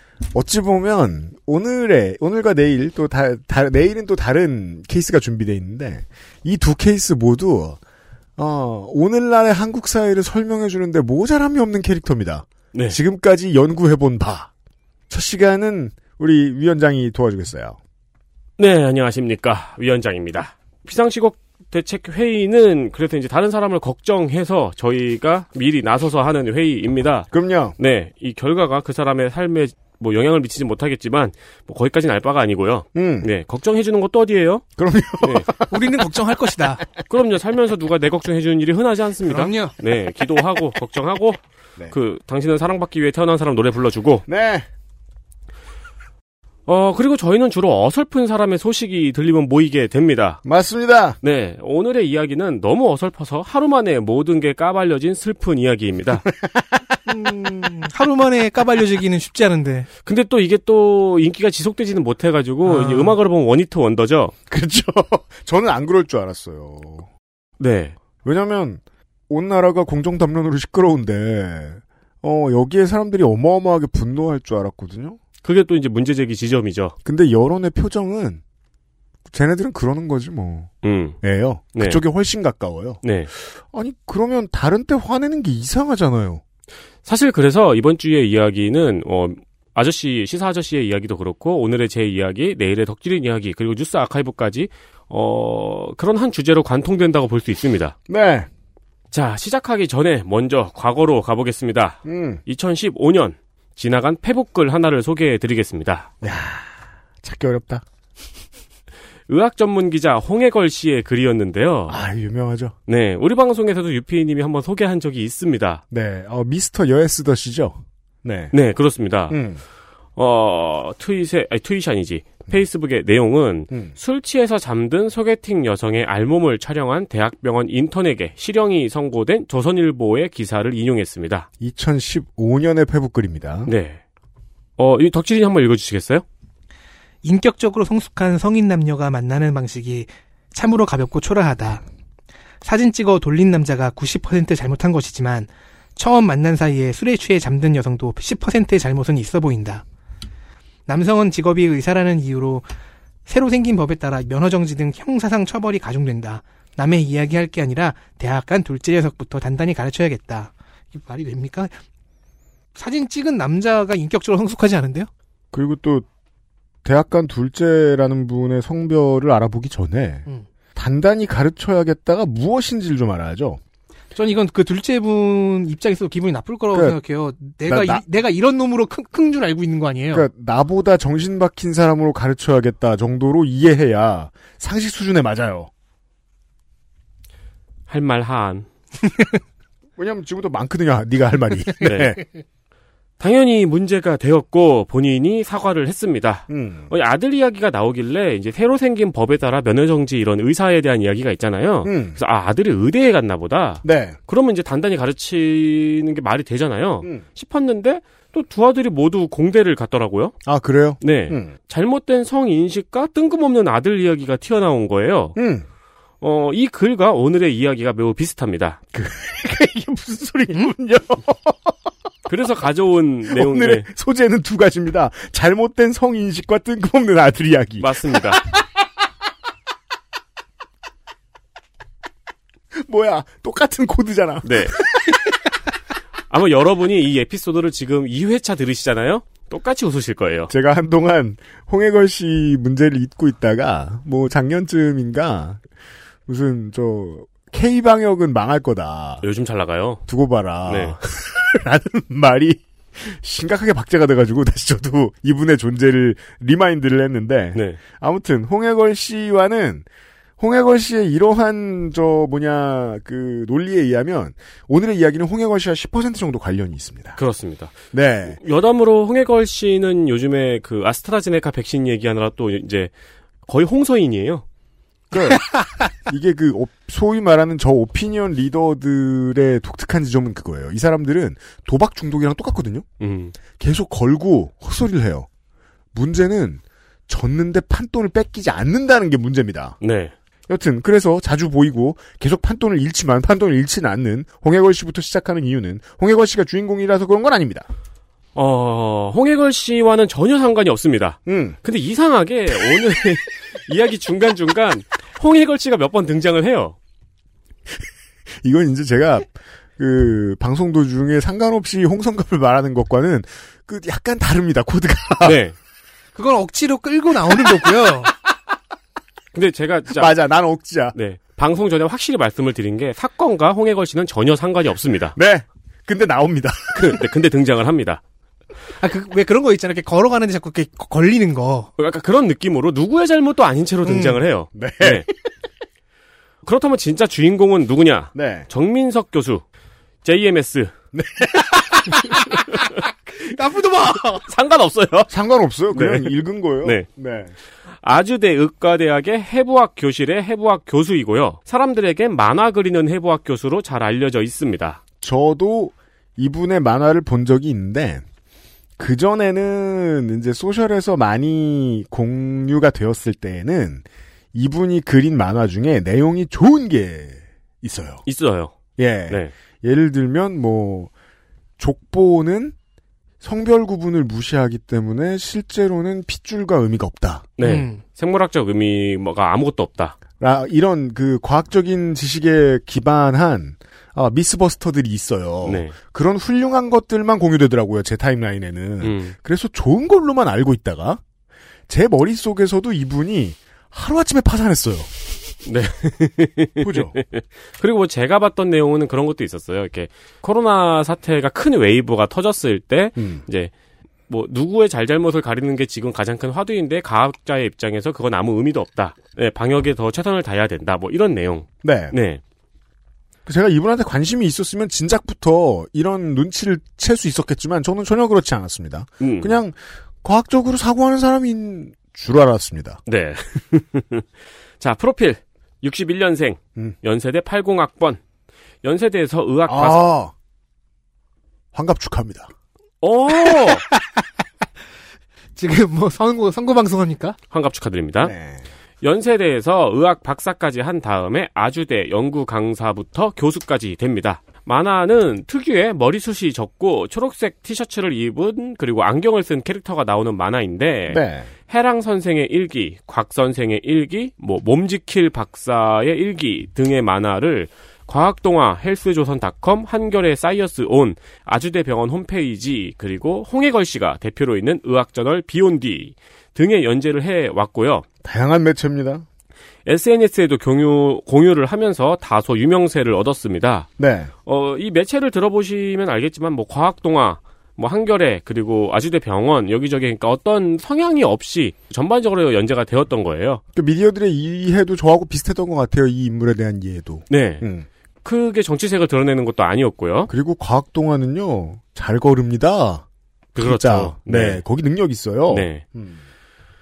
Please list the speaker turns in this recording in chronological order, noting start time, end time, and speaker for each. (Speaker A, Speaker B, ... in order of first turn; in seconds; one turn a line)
Speaker A: 0.3-7.8
Speaker A: 8.4-14.5
Speaker B: 12.7-13.0
Speaker A: 15.1-17.8
Speaker B: 18.6-34.6
Speaker A: 27.3-27.8
Speaker A: 33.0-33.3
Speaker A: 34.8-36.1
Speaker B: 35.2-35.5
Speaker C: 35.7-36.8
Speaker B: 37.1-41.4
Speaker C: 39.3-39.8
Speaker B: 41.9-44.2
Speaker A: 44.3-44.7
Speaker B: 46.7-50.4
Speaker A: 50.5-51.2
Speaker B: 51.2-56.3
Speaker A: 56.4-57.0
Speaker C: 57.1-59.9
Speaker B: 60.0-64.3
Speaker C: 62.6-63.2
Speaker A: 64.5-67.1
Speaker B: 67.6-68.0
Speaker A: 68.2-75.2
Speaker B: 75.4-77.0
Speaker A: 77.0-78.4
Speaker A: 79.3-86.4
Speaker B: 80.8-81.2
Speaker B: 81.8-82.0
Speaker B: 83.0-83.3
Speaker B: 87.0-98.0
Speaker A: 98.1-98.5
Speaker B: 99.1-106.1
Speaker A: 102.0-102.4
Speaker A: 106.2-107.8
Speaker B: 109.3-112.0
Speaker A: 111.9-112.8
Speaker B: 112.9-115.8
Speaker A: 115.9-118.5
Speaker B: 118.5-119.4
Speaker A: 119.3-119.6
Speaker B: 120.2-131.5
Speaker A: 131.6-133.7
Speaker B: 133.7-134.0
Speaker B: 134.8-136.2
Speaker C: 137.2-141.8
Speaker C: 142.6-149.8
Speaker C: 150.9-152.7
Speaker C: 153.3-161.8
Speaker C: 162.8-165.1
Speaker A: 165.5-166.1
Speaker A: 166.8-173.6
Speaker C: 174.2-180.3
Speaker A: 176.7-177.0
Speaker A: 177.7-178.0
Speaker A: 180.1-185.7
Speaker B: 187.9-188.7
Speaker A: 190.0-192.2
Speaker B: 191.8-192.1
Speaker B: 193.2-210.3
Speaker A: 196.5-196.9
Speaker A: 201.8-202.2
Speaker A: 203.8-204.2
Speaker A: 210.4-211.5
Speaker B: 211.0-215.4
Speaker A: 215.4-215.7
Speaker B: 216.2-218.8
Speaker A: 218.9-221.7
Speaker B: 222.3-223.9
Speaker A: 223.3-228.4
Speaker B: 227.8-228.4
Speaker A: 232.7-235.2
Speaker B: 234.4-234.8
Speaker B: 236.3-240.5
Speaker A: 240.5-245.6
Speaker A: 246.3-249.2
Speaker B: 249.2-250.0
Speaker A: 250.1-259.9
Speaker B: 250.7-251.0
Speaker B: 257.6-257.8
Speaker A: 260.4-267.2
Speaker B: 267.2-267.8
Speaker A: 267.9-268.4
Speaker B: 268.4-272.9
Speaker B: 273.5-274.4
Speaker A: 275.1-282.9
Speaker B: 283.0-283.4
Speaker A: 283.6-285.3
Speaker A: 285.9-289.8
Speaker B: 289.8-290.1
Speaker A: 290.5-297.7
Speaker B: 298.4-306.8
Speaker A: 301.3-301.6
Speaker A: 308.4-315.4
Speaker B: 315.2-315.6
Speaker C: 316.1-318.1
Speaker B: 319.3-320.2
Speaker A: 319.9-320.9
Speaker B: 320.9-325.2
Speaker A: 325.2-327.0
Speaker B: 326.7-328.0
Speaker C: 328.8-331.7
Speaker B: 331.8-335.1
Speaker C: 333.9-334.2
Speaker A: 334.6-335.1
Speaker B: 336.4-339.4
Speaker A: 338.1-338.5
Speaker B: 340.0-340.7
Speaker A: 340.9-342.1
Speaker B: 342.1-342.6
Speaker C: 343.1-344.2
Speaker B: 344.3-345.1
Speaker A: 345.1-347.3
Speaker B: 345.7-346.9
Speaker B: 347.8-354.8
Speaker A: 355.0-358.0
Speaker A: 358.8-368.0
Speaker B: 368.1-368.6
Speaker A: 368.8-370.9
Speaker B: 369.1-369.3
Speaker A: 371.6-372.6
Speaker A: 373.2-377.3
Speaker B: 377.4-380.0
Speaker C: 377.4-377.8
Speaker A: 380.2-391.0
Speaker B: 385.4-385.7
Speaker B: 388.8-389.1
Speaker A: 391.7-394.9
Speaker B: 395.4-403.5
Speaker A: 396.6-397.0
Speaker A: 403.0-403.2
Speaker B: 404.1-412.2
Speaker A: 411.6-412.0
Speaker A: 413.3-422.8
Speaker B: 419.0-419.4
Speaker B: 422.9-424.1
Speaker B: 424.6-428.0
Speaker B: 428.6-429.8
Speaker A: 429.5-430.1
Speaker A: 431.5-432.3
Speaker B: 432.8-433.6
Speaker C: 433.3-434.0
Speaker C: 435.4-437.2
Speaker B: 437.3-438.1
Speaker A: 438.0-438.4
Speaker B: 438.8-467.9
Speaker A: 450.9-451.3
Speaker A: 468.0-469.1
Speaker B: 469.7-473.7
Speaker A: 473.8-474.1
Speaker B: 474.3-483.4
Speaker A: 483.6-487.7
Speaker B: 487.1-487.5
Speaker B: 488.0-490.1
Speaker A: 490.1-492.9
Speaker B: 493.4-494.4
Speaker A: 493.4-496.0
Speaker B: 495.3-495.6